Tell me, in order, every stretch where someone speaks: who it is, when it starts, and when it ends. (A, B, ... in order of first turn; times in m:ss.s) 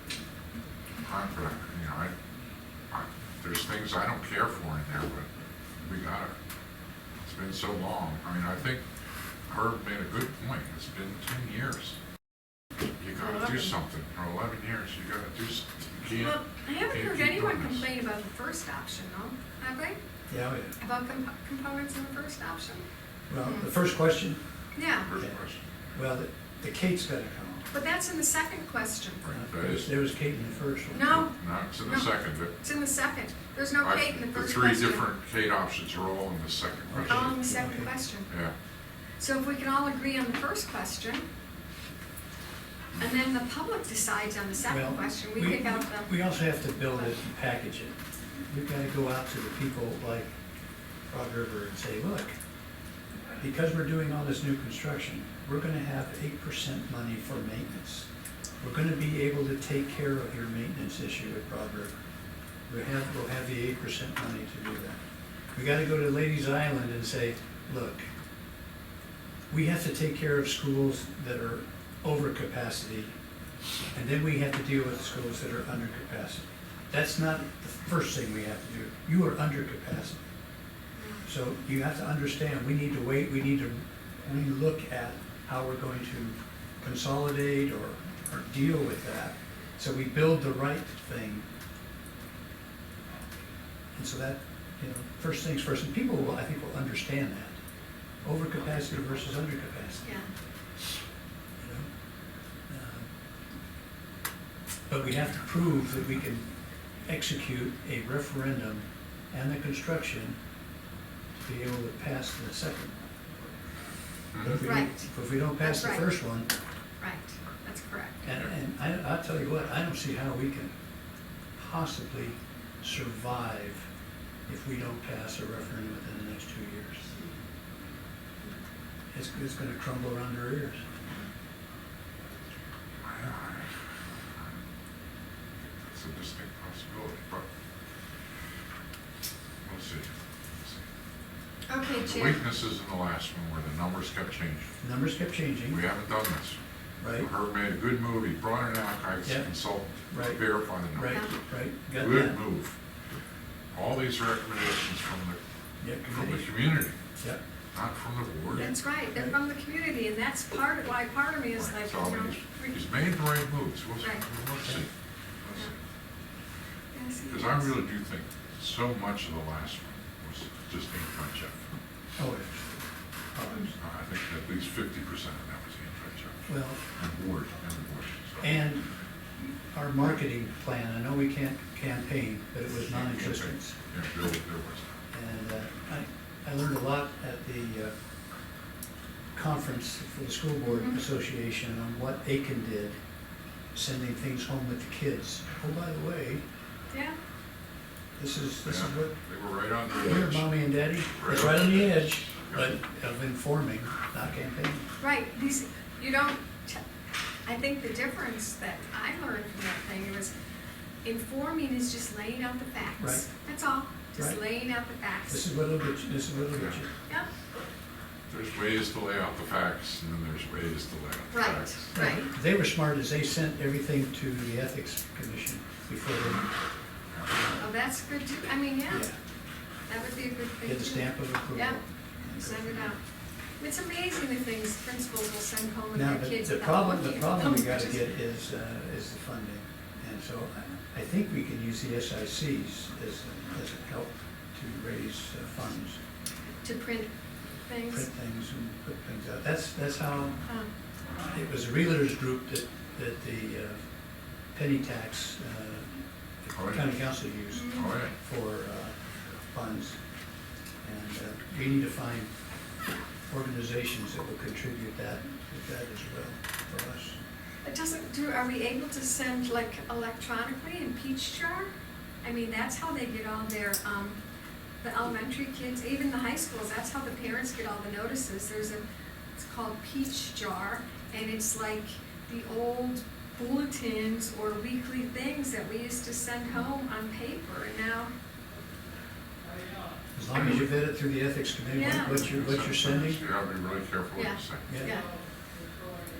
0:01.0-0:02.1 A
0:02.9-0:05.3 A
0:05.8-0:06.3 A
0:07.2-0:08.8 A
0:09.5-0:12.0 A
0:13.0-0:17.9 A
0:13.2-0:13.7 B
0:16.1-0:20.0 B
0:20.3-0:20.7 C
0:20.8-0:22.8 B
0:23.3-0:24.4 C
0:23.4-0:23.7 B
0:24.8-0:25.1 B
0:25.0-0:26.0 A
0:26.0-0:27.7 C
0:27.7-0:29.2 B
0:29.2-0:30.0 A
0:29.3-0:31.2 C
0:30.9-0:35.1 B
0:31.1-0:32.5 A
0:33.8-0:37.5 A
0:36.9-0:37.9 C
0:37.1-0:38.3 B
0:38.3-0:38.5 A
0:39.2-0:41.2 B
0:43.0-0:46.1 B
0:44.7-0:48.0 C
0:48.5-0:50.3 C
0:51.1-0:52.3 C
0:53.4-0:58.1 C
0:58.6-1:01.9 C
1:02.7-1:05.0 C
1:05.5-1:08.0 C
1:09.5-1:13.1 C
1:13.9-1:20.2 C
1:21.0-1:21.2 B
1:21.3-1:31.4 C
1:34.0-1:37.6 C
1:38.2-1:40.2 C
1:40.0-1:40.3 B
1:41.6-1:41.9 C
1:42.7-1:43.1 C
1:44.9-1:46.5 C
1:47.0-1:50.4 C
1:51.4-1:53.0 C
1:54.3-1:54.6 A
1:54.4-1:56.5 C
1:54.6-1:55.1 B
1:55.6-1:56.1 B
1:57.0-1:58.2 B
1:58.2-2:00.7 C
2:01.6-2:03.9 C
2:04.5-2:07.1 C
2:09.1-2:10.9 C
2:13.0-2:13.7 A
2:15.8-2:17.5 A
2:19.6-2:20.8 A
2:21.7-2:22.4 B
2:21.9-2:24.7 A
2:24.8-2:25.8 C
2:25.7-2:26.6 A
2:27.0-2:27.3 C
2:27.2-2:31.4 A
2:30.1-2:32.4 C
2:32.0-2:32.8 A
2:33.7-2:35.4 A
2:35.8-2:36.5 C
2:36.0-2:37.0 A
2:37.7-2:38.7 A
2:38.5-2:39.4 C
2:38.6-2:42.8 B
2:41.5-2:44.9 A
2:47.0-2:47.7 B
2:47.3-2:51.6 A
2:52.2-2:52.8 C
2:53.3-2:53.7 C
2:53.8-2:58.4 A
2:56.5-2:56.8 C
2:58.4-2:58.9 C
2:59.4-3:03.8 C
3:02.7-3:04.9 A
3:05.1-3:07.9 C
3:09.4-3:13.0 C
3:10.6-3:11.0 B
3:13.7-3:16.4 C
3:16.9-3:17.2 B
3:18.2-3:19.2 C
3:18.6-3:20.6 A
3:20.0-3:24.9 C
3:21.1-3:22.8 A
3:25.0-3:26.8 B
3:27.5-3:30.3 B
3:31.0-3:35.4 B
3:33.0-3:33.3 C
3:35.3-3:36.9 C
3:36.5-3:36.8 A
3:38.3-3:41.9 A
3:41.3-3:42.3 B
3:41.9-3:46.5 C
3:47.6-3:49.1 B
3:48.9-3:49.2 C
3:49.9-3:53.0 B
3:50.6-3:53.0 C
3:53.6-3:58.0 B
3:56.0-4:06.0 C
4:06.6-4:07.1 B
4:07.7-4:08.1 B
4:07.9-4:10.4 C
4:11.3-4:13.8 C
4:14.5-4:19.0 C
4:16.5-4:17.0 A
4:17.5-4:18.0 B
4:17.7-4:18.1 A
4:19.5-4:20.0 C
4:20.8-4:22.3 C
4:23.3-4:27.2 C
4:27.6-4:31.7 B
4:32.2-4:34.2 B
4:34.8-4:38.8 B
4:39.4-4:48.1 B
4:50.2-4:53.2 C
4:50.4-4:50.6 B
4:51.7-4:52.2 B
4:52.1-4:54.8 A
4:54.2-4:55.1 B
4:54.7-4:55.0 C